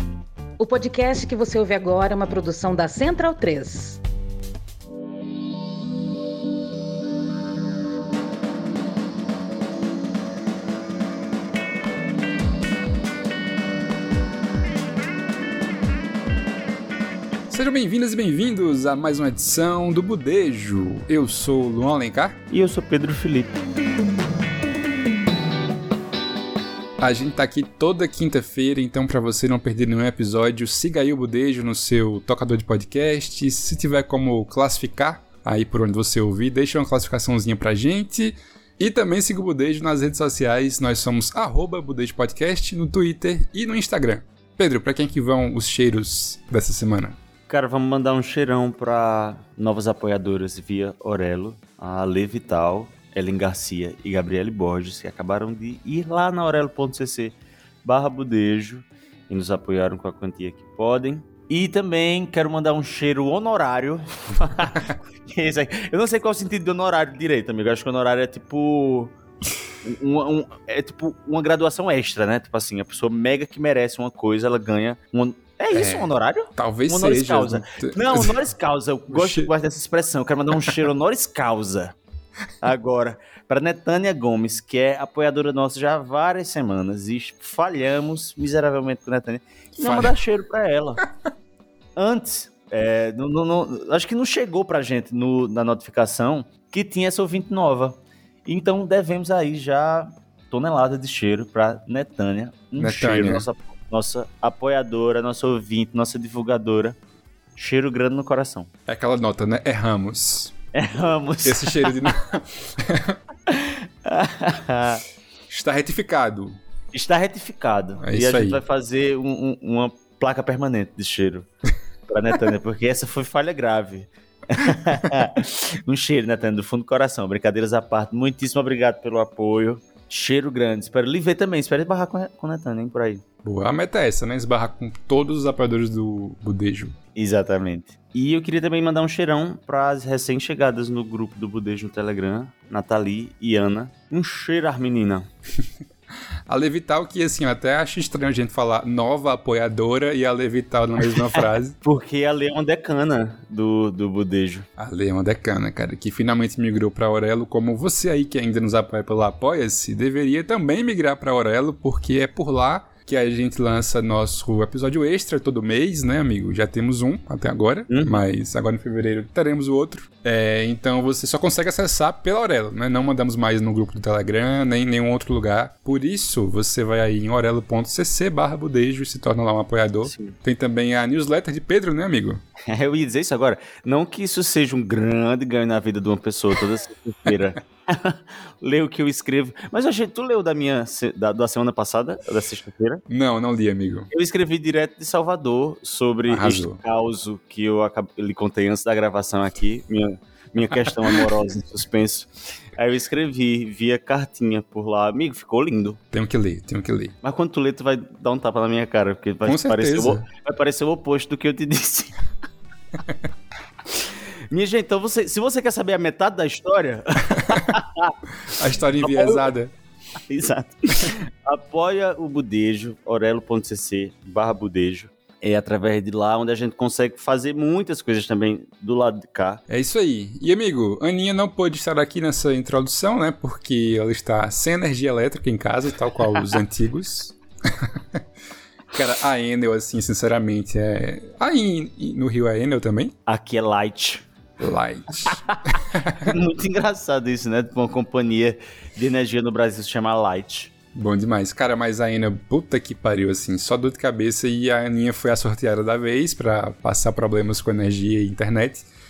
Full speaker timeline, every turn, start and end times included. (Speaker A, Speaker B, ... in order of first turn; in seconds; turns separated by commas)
Speaker A: 0.6-4.0, Speaker B: 17.5-22.3, Speaker C: 22.5-23.6, Speaker B: 27.0-47.2, Speaker C: 47.5-69.1, Speaker C: 69.8-82.0, Speaker B: 75.7-78.4, Speaker B: 79.1-79.5, Speaker B: 80.6-80.9, Speaker C: 82.6-91.0, Speaker B: 89.8-90.1, Speaker C: 92.0-107.0, Speaker B: 102.8-103.5, Speaker C: 107.5-108.7, Speaker B: 108.9-110.5, Speaker C: 110.7-112.0, Speaker B: 111.4-113.1, Speaker C: 113.5-115.0, Speaker B: 115.5-116.6, Speaker C: 116.9-121.5, Speaker B: 118.0-118.6, Speaker C: 122.1-133.2, Speaker B: 133.4-136.9, Speaker C: 137.2-145.3, Speaker B: 146.5-151.8, Speaker C: 151.1-154.7, Speaker B: 154.8-182.4, Speaker C: 167.9-168.2, Speaker C: 180.1-180.4, Speaker C: 182.7-193.0, Speaker B: 193.1-194.1, Speaker C: 194.1-206.0, Speaker B: 196.3-196.8, Speaker B: 206.1-207.1, Speaker C: 207.2-212.2, Speaker B: 209.4-210.2, Speaker C: 213.9-218.1, Speaker B: 218.6-219.7, Speaker C: 219.0-219.5, Speaker C: 220.3-229.6, Speaker B: 229.7-237.8, Speaker B: 238.9-243.1, Speaker C: 243.3-244.2, Speaker B: 244.6-245.4, Speaker C: 245.2-250.7, Speaker B: 245.9-246.3, Speaker B: 250.9-258.9